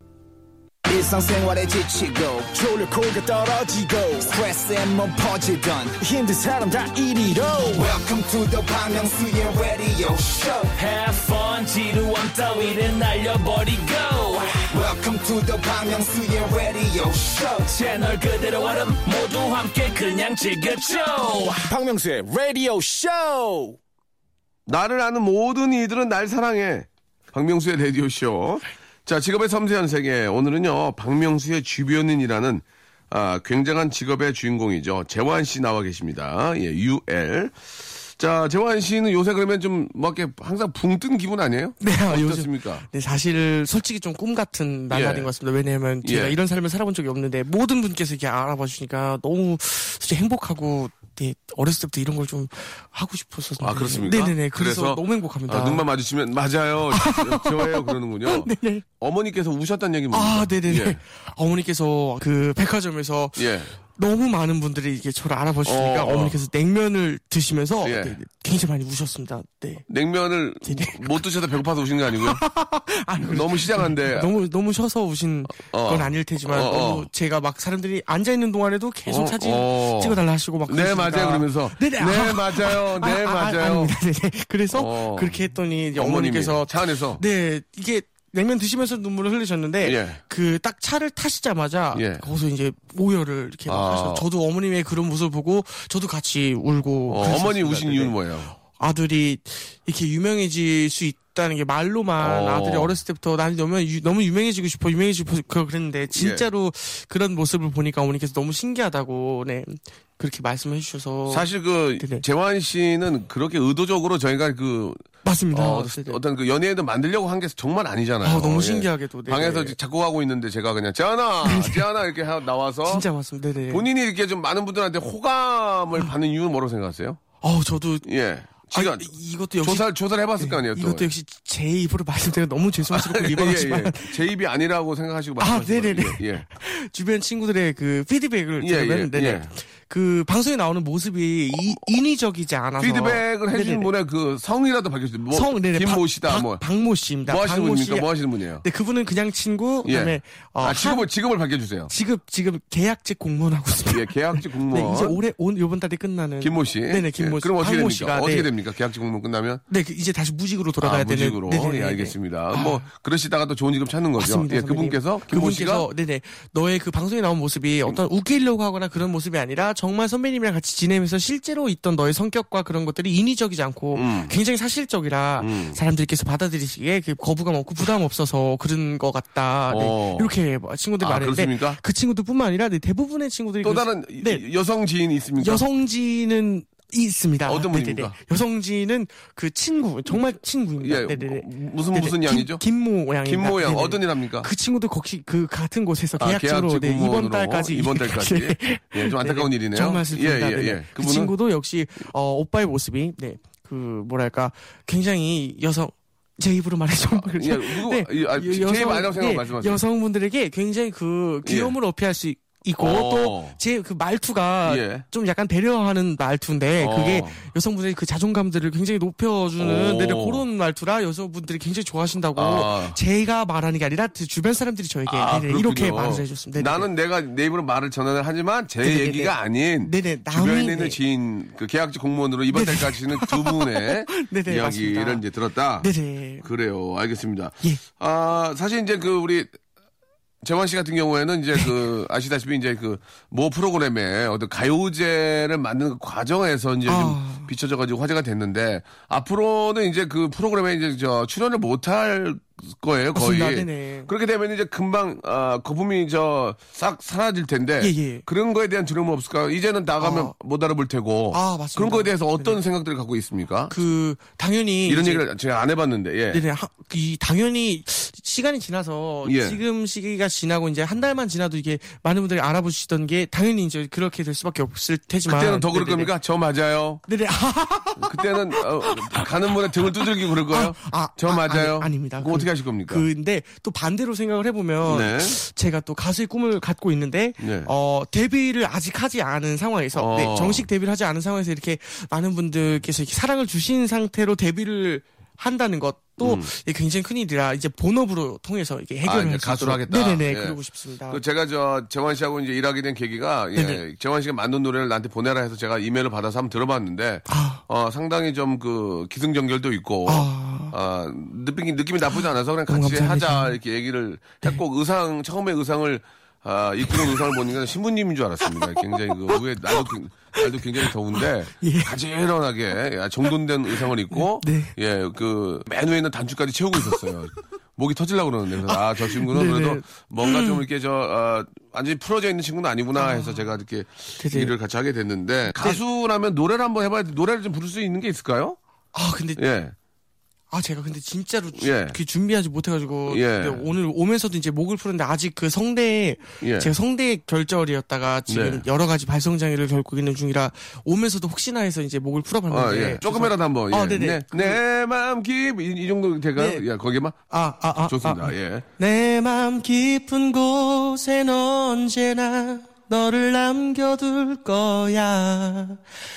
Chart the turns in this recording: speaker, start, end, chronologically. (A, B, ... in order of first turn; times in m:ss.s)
0:00.8-0:02.5 A
0:02.5-0:04.3 B
0:04.2-0:06.0 A
0:06.0-0:07.8 B
0:07.7-0:10.7 A
0:10.7-0:14.7 C
0:14.7-0:17.7 A
0:17.7-0:21.7 C
0:21.6-0:23.8 B
0:24.6-0:42.8 D
0:41.8-0:55.8 E
0:44.9-0:45.3 D
0:46.0-0:46.4 D
0:53.6-1:01.0 D
0:56.9-0:58.8 E
1:00.1-1:09.8 E
1:03.4-1:03.7 D
1:05.6-1:06.4 D
1:07.8-1:08.2 D
1:09.9-1:12.4 D
1:10.6-1:11.3 E
1:12.1-1:52.2 E
1:13.2-1:14.3 D
1:15.5-1:17.1 D
1:19.1-1:24.0 D
1:24.7-1:25.4 D
1:26.0-1:27.2 D
1:29.8-1:30.2 D
1:31.9-1:32.2 D
1:33.7-1:34.3 D
1:37.1-1:38.5 D
1:42.2-1:42.9 D
1:46.1-1:46.4 D
1:51.3-2:03.0 D
1:55.2-1:56.2 E
1:58.2-1:59.8 E
2:01.4-2:01.8 E
2:02.8-2:03.9 E
2:03.7-2:07.2 D
2:07.4-2:08.0 E
2:08.0-2:11.1 D
2:08.7-2:09.9 E
2:10.4-2:14.2 E
2:12.9-2:16.4 D
2:15.4-2:23.9 E
2:18.6-2:19.5 D
2:22.8-2:26.6 D
2:25.3-2:28.1 E
2:27.3-2:28.6 D
2:28.6-2:31.1 E
2:29.8-2:31.9 D
2:31.9-2:38.5 E
2:33.9-2:35.2 D
2:36.4-2:39.6 D
2:39.7-2:42.8 E
2:40.8-2:45.9 D
2:44.2-3:04.4 E
2:53.9-2:54.3 D
2:55.4-2:55.8 D
2:59.7-3:00.3 D
3:01.0-3:01.8 D
3:03.6-3:05.6 D
3:05.4-3:46.9 E
3:07.4-3:08.2 D
3:10.8-3:12.6 D
3:13.2-3:14.5 D
3:16.2-3:21.3 D
3:27.1-3:29.8 D
3:31.4-3:31.8 D
3:32.8-3:33.6 D
3:34.6-3:35.0 D
3:36.8-3:37.4 D
3:39.6-3:40.4 D
3:42.4-3:43.0 D
3:45.1-3:55.9 D
3:48.8-3:51.0 E
3:52.5-3:55.2 E
3:55.8-3:56.4 E
3:56.4-3:59.5 D
4:00.4-4:23.7 D
4:06.9-4:07.5 E
4:13.1-4:14.1 E
4:17.8-4:18.2 E
4:20.0-4:20.3 E
4:21.3-4:22.6 E
4:23.7-4:25.2 E
4:24.8-4:26.4 D
4:26.3-4:36.1 E
4:29.2-4:29.6 D
4:35.3-4:37.0 D
4:37.1-4:39.2 E
4:38.0-4:43.0 D
4:39.8-5:01.2 E
4:44.8-4:45.4 D
4:47.4-4:47.7 D
4:49.9-4:50.7 D
4:56.2-4:56.5 D
4:59.0-5:00.6 D
5:01.1-5:38.6 D
5:03.5-5:03.8 E
5:07.3-5:07.6 E
5:10.1-5:10.7 E
5:12.7-5:13.6 E
5:16.9-5:17.2 E
5:18.5-5:22.0 E
5:24.1-5:24.7 E
5:28.7-5:30.6 E
5:33.0-5:33.4 E
5:34.2-5:34.5 E
5:38.9-5:39.4 E
5:39.4-5:39.7 D
5:40.5-5:54.6 E
5:41.6-5:42.0 D
5:43.1-5:43.7 D
5:46.4-5:46.7 D
5:48.3-5:48.6 D
5:52.5-5:57.2 D
5:56.4-5:56.6 E
5:57.3-6:05.8 E
5:57.8-5:58.6 D